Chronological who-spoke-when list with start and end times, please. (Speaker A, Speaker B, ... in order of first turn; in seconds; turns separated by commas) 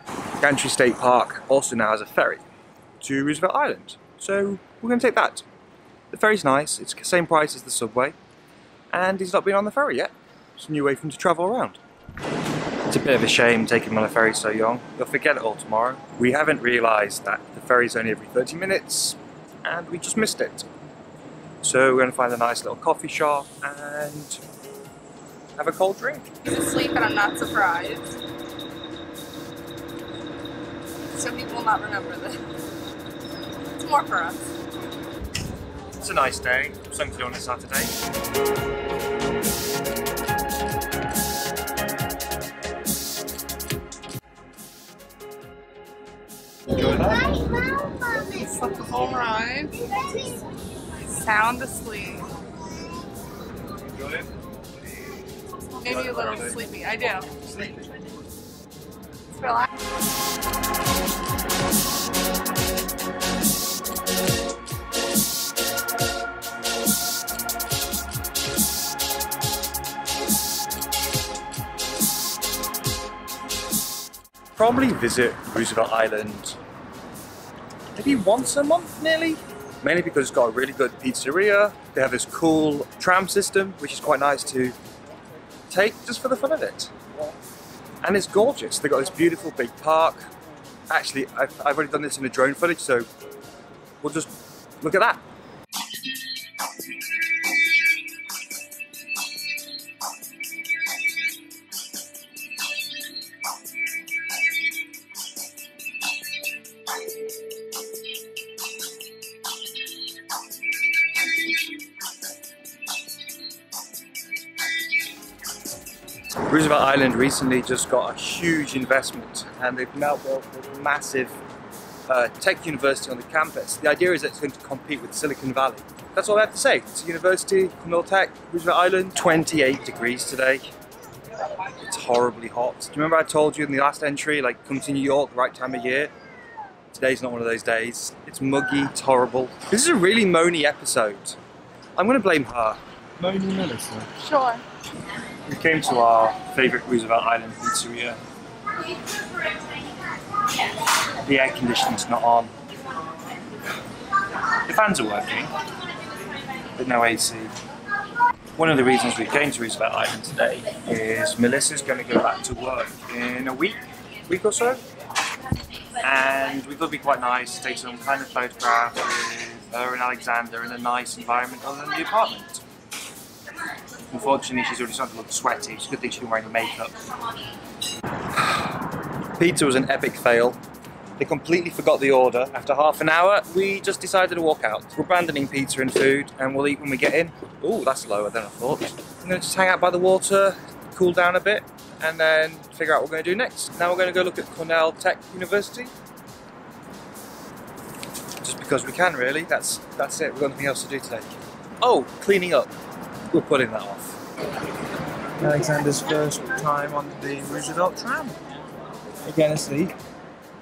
Speaker A: 0.4-2.4, Speaker A: 3.0-5.4, Speaker A: 6.1-8.2, Speaker A: 8.9-11.8, Speaker A: 12.9-20.7, Speaker A: 21.6-24.4, Speaker A: 25.6-26.3, Speaker B: 26.4-28.1, Speaker B: 31.1-32.4, Speaker B: 33.6-34.5, Speaker A: 36.0-37.9, Speaker A: 46.7-47.5, Speaker B: 48.0-50.3, Speaker B: 51.0-52.3, Speaker B: 55.8-57.3, Speaker A: 55.8-56.7, Speaker A: 57.3-57.9, Speaker B: 59.3-59.7, Speaker A: 74.5-76.6, Speaker A: 77.9-84.7, Speaker A: 85.7-86.9, Speaker A: 88.0-90.3, Speaker A: 90.9-93.1, Speaker A: 94.0-95.2, Speaker A: 116.4-121.4, Speaker A: 122.1-130.7, Speaker A: 131.6-136.1, Speaker A: 136.9-141.4, Speaker A: 141.9-144.1, Speaker B: 144.2-144.6, Speaker A: 145.4-148.2, Speaker A: 151.1-152.5, Speaker A: 154.6-155.5, Speaker A: 156.7-157.5, Speaker A: 158.6-164.8, Speaker A: 166.0-172.6, Speaker A: 174.1-176.9, Speaker A: 178.4-178.7, Speaker A: 179.4-180.6, Speaker A: 181.2-195.9, Speaker A: 198.4-202.7, Speaker A: 203.3-204.2, Speaker A: 205.4-208.4, Speaker A: 209.2-209.9